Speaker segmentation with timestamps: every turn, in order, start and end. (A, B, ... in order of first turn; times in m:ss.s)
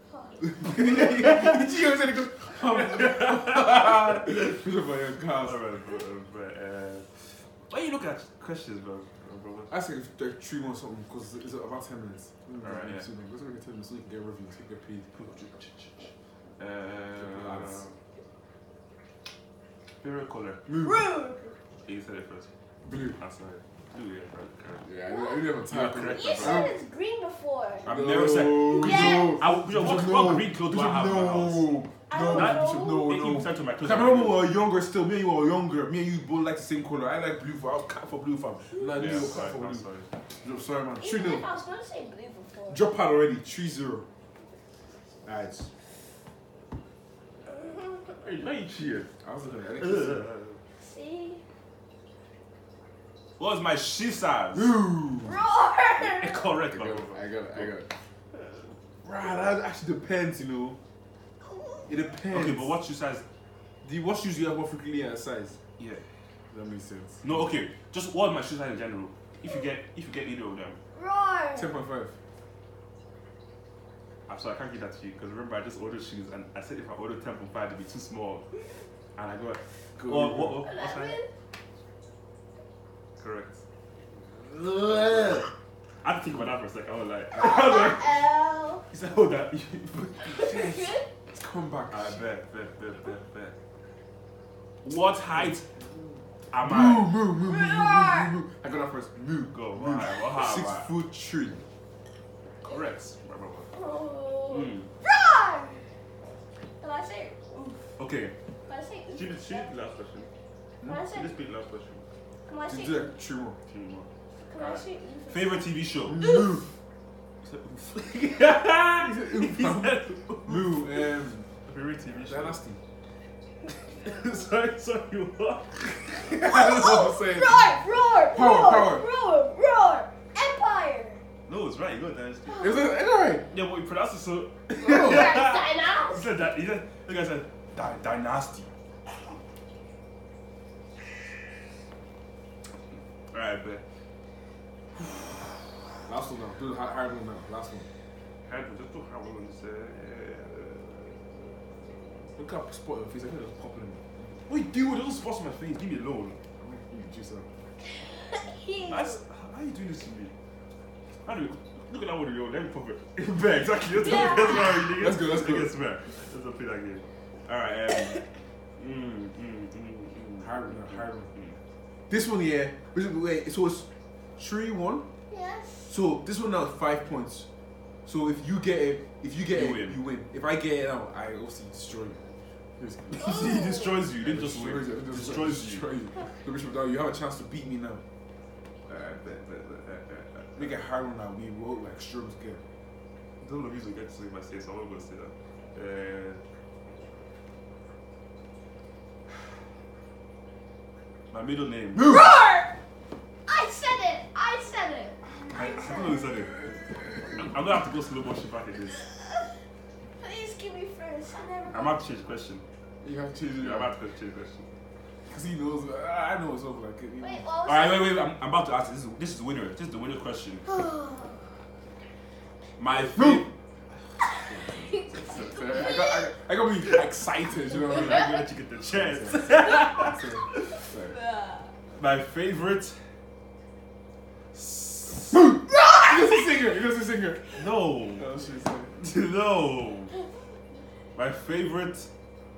0:00.1-0:00.6 A
0:00.4-0:05.6 B
0:01.2-0:01.6 C
0:02.6-0:04.5 C
0:05.4-0:09.7 C
0:09.7-0:15.1 B
0:12.6-0:13.1 C
0:15.1-0:18.0 C
0:17.1-0:17.8 B
0:20.0-0:20.6 C
0:20.6-0:21.1 B
0:20.8-0:21.6 A
0:21.8-0:22.5 C
0:22.8-0:23.2 B
0:23.0-0:24.9 C
0:24.8-0:26.7 B
0:25.0-0:27.9 A
0:25.7-0:26.7 C
0:27.8-0:31.8 C
0:27.8-0:39.8 B
0:28.7-0:29.4 A
0:32.1-0:33.1 A
0:32.3-0:34.5 C
0:38.7-0:39.2 A
0:39.0-0:40.1 C
0:40.4-0:41.4 B
0:41.0-0:42.8 A
0:42.7-0:44.0 B
0:45.2-0:45.7 B
0:47.5-0:48.1 A
0:48.2-0:49.1 C
0:49.2-0:50.2 B
0:49.8-0:50.6 C
0:50.8-0:51.4 A
0:53.4-0:54.7 C
0:54.5-0:55.4 B
0:55.2-0:56.4 A
0:56.0-0:57.8 C
0:56.7-0:57.9 B
0:59.0-1:00.8 B
1:01.4-1:02.0 A
1:01.9-1:02.7 B
1:02.3-1:03.2 C
1:03.8-1:05.6 B
1:05.8-1:06.0 C
1:06.5-1:07.4 B
1:07.2-1:10.8 C
1:10.9-1:11.7 A
1:11.5-1:12.2 B
1:14.3-1:18.4 C
1:19.1-1:21.2 C
1:20.0-1:20.6 B
1:20.6-1:21.3 A
1:23.2-1:23.6 C
1:24.4-1:25.5 C
1:26.0-1:28.2 C
1:27.3-1:28.8 A
1:28.9-1:30.7 C
1:30.2-1:31.1 A
1:30.4-1:32.2 B
1:31.9-1:33.6 C
1:34.8-1:35.6 C
1:35.3-1:41.6 B
1:36.5-1:37.2 C
1:37.4-1:38.4 A
1:39.5-1:40.9 C
1:42.6-1:43.7 C
1:43.7-1:45.8 A
1:44.5-1:44.9 C
1:46.8-1:47.8 A
1:48.0-1:48.3 C
1:48.6-1:49.7 A
1:49.1-1:50.3 C
1:50.8-1:51.3 A
1:51.1-1:52.0 C
1:52.4-1:53.1 A
1:52.6-1:53.6 B
1:53.7-1:56.2 C
1:54.4-1:56.6 A
1:56.0-1:56.6 B
1:57.4-2:01.1 C
1:59.0-2:01.5 B
2:01.6-2:02.6 C
2:02.2-2:02.8 B
2:03.7-2:06.4 C
2:06.2-2:09.0 B
2:06.3-2:11.2 A
2:11.5-2:12.7 C
2:12.5-2:12.9 A
2:12.6-2:13.5 B
2:13.5-2:18.7 C
2:14.8-2:15.4 B
2:14.8-2:16.2 A
2:23.3-2:23.8 C
2:26.0-2:27.9 B
2:28.4-2:32.3 C
2:32.4-2:34.3 B
2:34.5-2:36.4 C
2:36.6-2:37.5 B
2:38.2-2:39.2 A
2:38.9-2:40.3 C
2:41.2-2:48.2 C
2:44.0-2:44.9 A
2:44.3-2:45.7 B
2:48.8-2:51.6 C
2:50.4-2:51.3 B
2:52.1-2:55.0 B
2:55.3-2:55.9 A
2:55.9-2:57.5 B
2:58.0-3:02.2 B
2:59.5-3:00.0 C
3:02.8-3:03.4 B
3:03.1-3:05.9 C
3:03.2-3:04.0 A
3:04.2-3:08.0 B
3:08.9-3:09.2 B
3:08.9-3:10.8 C
3:10.5-3:12.6 B
3:13.4-3:16.4 C
3:21.3-3:22.1 C
3:22.0-3:22.2 B
3:22.0-3:22.7 A
3:23.5-3:26.5 A
3:25.5-3:26.5 C
3:27.3-3:29.0 C
3:29.0-3:29.5 A
3:30.2-3:32.0 A
3:31.7-3:32.6 C
3:33.0-3:33.9 B
3:33.6-3:34.7 C
3:35.3-3:37.5 B
3:37.2-3:38.2 A
3:37.6-3:40.6 C
3:40.6-3:41.5 A
3:42.8-3:43.5 C
3:43.1-3:43.5 B
3:44.2-3:46.4 A
3:44.4-3:51.2 B
3:47.7-3:48.4 A
3:47.7-3:50.7 C
3:49.5-3:50.1 A
3:50.6-3:51.7 A
3:51.9-3:53.0 C
3:54.5-3:55.4 C
3:55.3-3:57.7 B
3:55.7-3:56.6 A
3:57.6-3:58.3 C
3:58.2-3:59.0 B
3:59.0-4:00.1 C
4:01.1-4:02.1 C